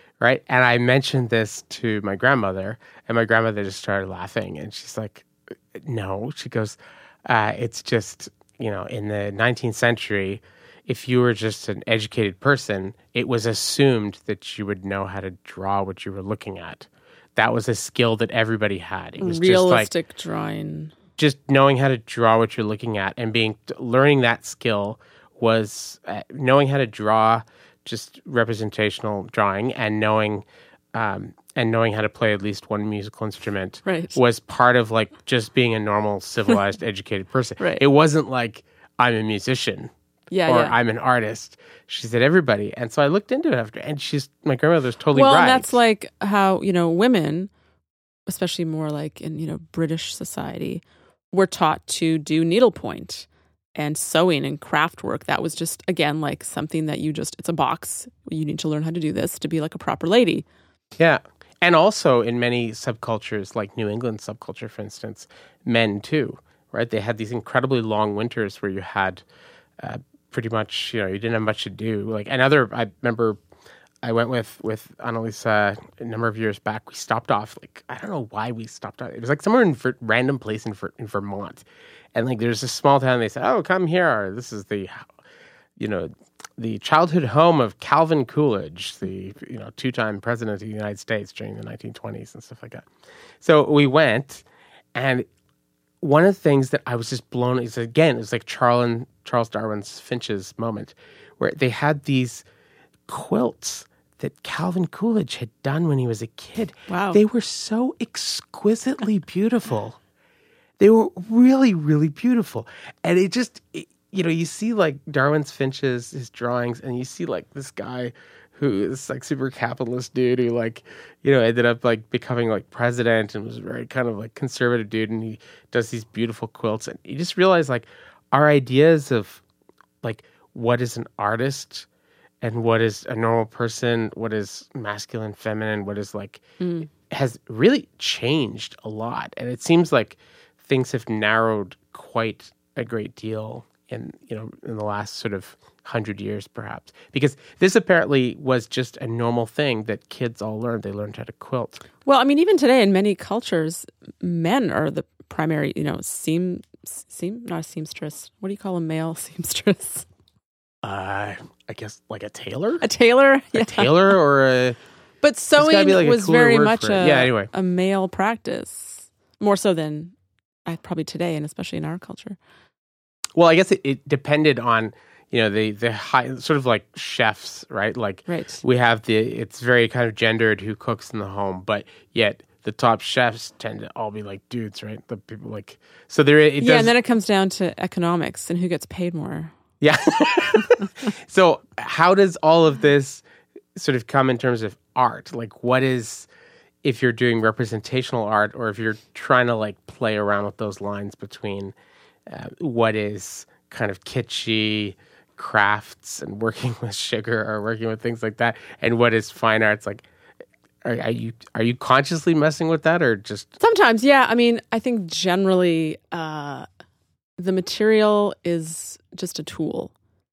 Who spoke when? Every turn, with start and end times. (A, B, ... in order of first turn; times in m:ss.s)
0:00.2-0:19.9 A
0:19.2-0:21.0 B
0:21.2-0:39.9 A
0:33.8-0:34.2 B
0:37.6-0:37.8 B
0:40.3-0:40.8 B
0:40.5-0:45.8 A
0:45.1-0:47.5 B
0:48.3-1:00.5 B
1:01.0-1:09.2 A
1:09.8-1:13.4 A
1:14.0-1:25.1 A
1:25.8-1:32.9 A
1:33.4-1:35.3 A
1:36.0-1:42.4 A
1:43.1-1:50.0 A
1:46.9-1:47.2 B
1:50.8-2:09.4 A
2:10.0-2:11.9 A
2:12.4-2:31.8 A
2:16.6-2:16.9 B
2:32.0-2:40.1 B
2:40.8-2:42.8 A
2:42.8-2:44.1 B
2:43.5-2:44.8 A
2:45.2-2:50.2 B
2:45.6-2:47.5 A
2:50.7-2:52.4 B
2:53.4-3:06.9 A
2:58.3-2:58.6 B
3:06.6-3:09.5 B
3:09.8-3:13.2 A
3:13.8-3:16.3 A
3:16.8-3:21.8 A
3:22.3-3:30.0 A
3:30.8-3:33.6 A
3:33.6-3:36.7 B
3:37.4-3:39.9 B